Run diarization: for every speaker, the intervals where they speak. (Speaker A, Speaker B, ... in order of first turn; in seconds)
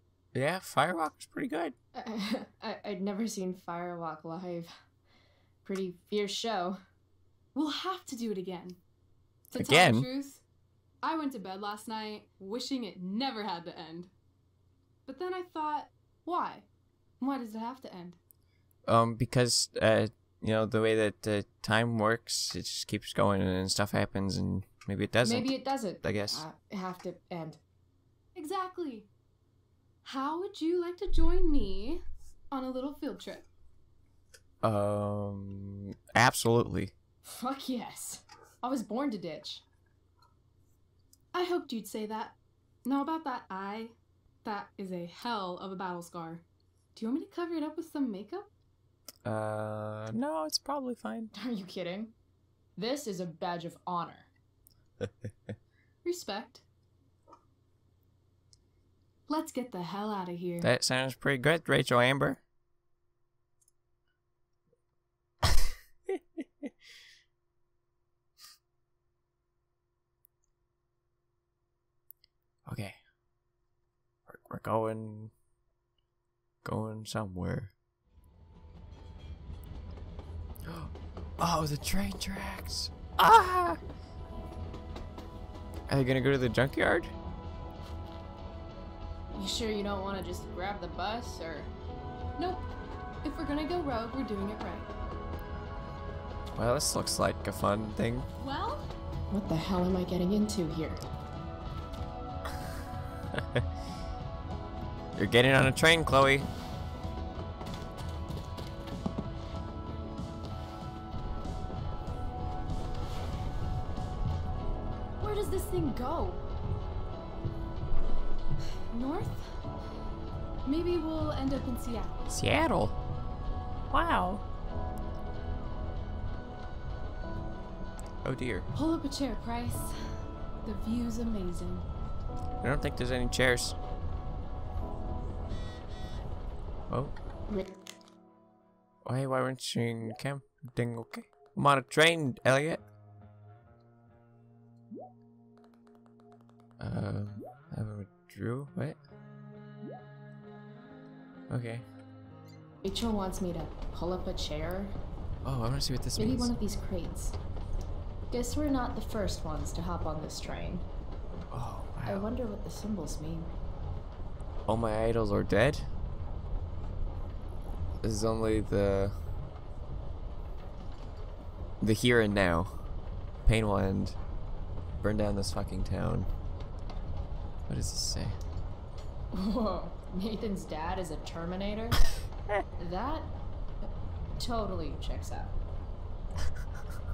Speaker A: 0.3-1.7, 9.6-10.1, 18.9-26.4, 34.6-36.9, 49.2-51.3, 60.6-62.4, 72.7-73.0, 74.3-75.3, 76.6-77.7, 80.6-83.8, 85.9-87.1, 96.5-98.3, 103.4-103.6, 105.2-106.5, 122.3-122.9, 123.9-124.4, 128.2-128.7, 132.6-133.8, 139.1-142.8, 146.8-149.0, 151.5-151.9, 155.4-156.5, 161.5-162.3, 164.7-165.8, 168.0-169.2, 171.8-172.8, 173.4-174.2, 175.0-176.3, 177.7-178.4
Speaker B: 1.9-4.7, 5.6-6.8, 25.2-27.6, 37.2-39.6, 51.3-52.1, 52.8-54.3, 89.3-91.7, 99.3-101.0, 152.8-154.9, 156.2-157.4, 158.3-160.9, 162.1-163.5, 179.3-182.0, 182.8-183.3, 183.8-185.6
Speaker C: 7.5-8.8, 9.5-10.4, 11.0-14.1, 15.1-16.6, 17.2-18.2, 28.3-29.1, 30.0-33.5, 41.3-46.4, 46.9-48.5, 56.0-56.6, 59.3-60.7, 92.4-92.7, 93.2-94.9, 98.4-98.9, 115.2-116.4, 118.9-119.5, 120.6-122.2, 128.7-129.9, 130.6-131.9